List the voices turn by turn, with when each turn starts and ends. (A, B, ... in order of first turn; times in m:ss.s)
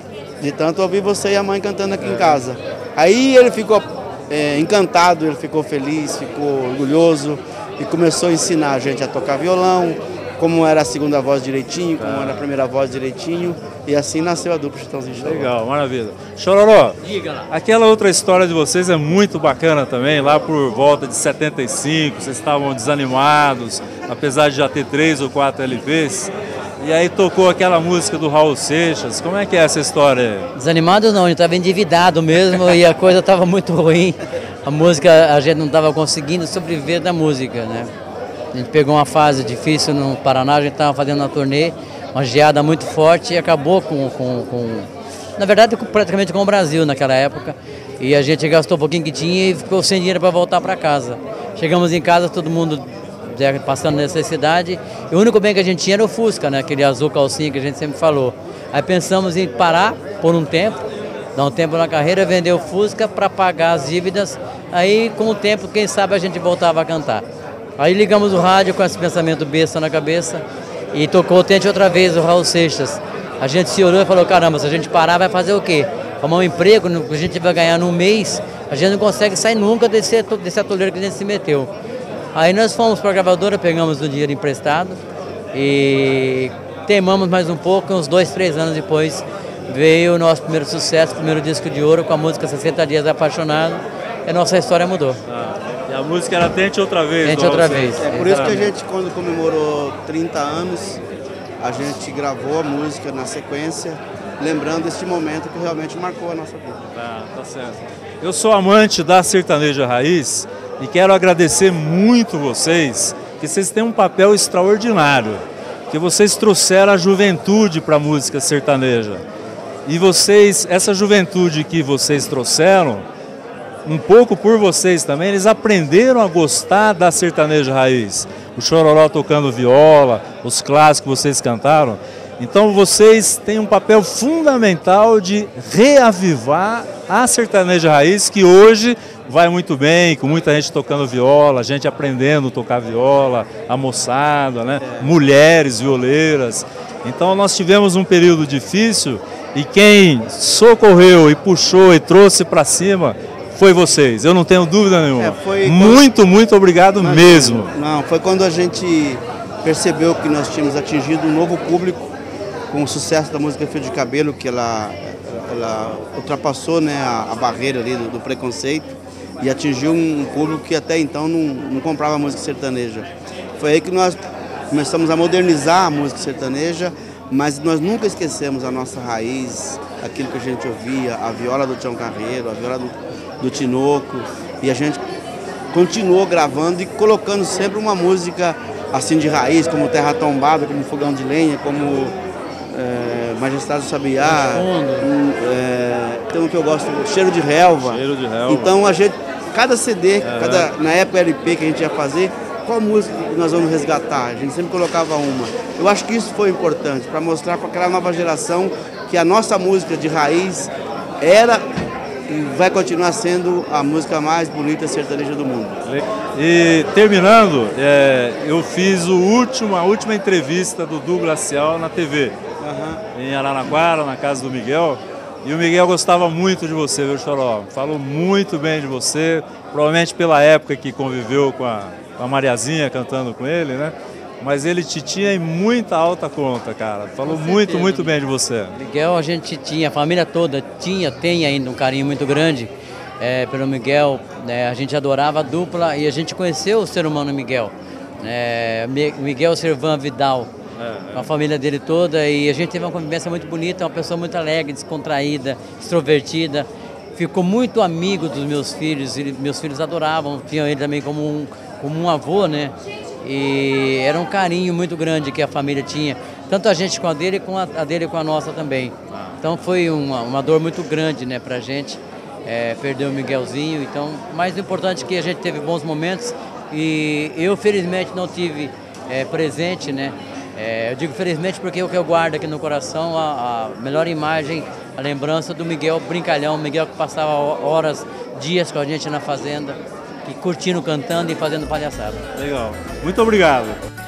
0:00.4-0:15.5 A
0:12.0-0:12.4 B
0:15.2-0:30.5 B
0:30.6-0:37.9 C
0:38.5-1:07.2 C
1:07.8-1:21.7 C
1:22.3-1:25.0 C
1:25.5-1:35.2 C
1:35.3-1:38.7 B
1:37.2-1:38.7 C
1:38.0-1:41.0 A
1:41.6-1:46.8 A
1:46.9-1:59.2 B
1:59.9-2:03.1 B
2:03.8-2:37.7 B
2:24.8-2:25.1 A
2:35.2-2:36.1 A
2:37.0-2:42.1 A
2:42.7-2:54.2 A
2:54.7-3:05.0 A
3:05.7-3:12.2 A
3:12.7-3:31.6 A
3:14.2-3:15.1 C
3:17.8-3:18.8 B
3:20.2-3:20.7 B
3:32.3-3:35.8 A
3:35.8-3:42.4 B
3:42.6-3:43.0 A
3:43.1-3:58.8 B
3:57.2-3:58.1 C
3:58.8-4:10.5 C
4:10.8-4:11.3 B
4:11.1-4:52.2 C
4:52.4-4:53.8 B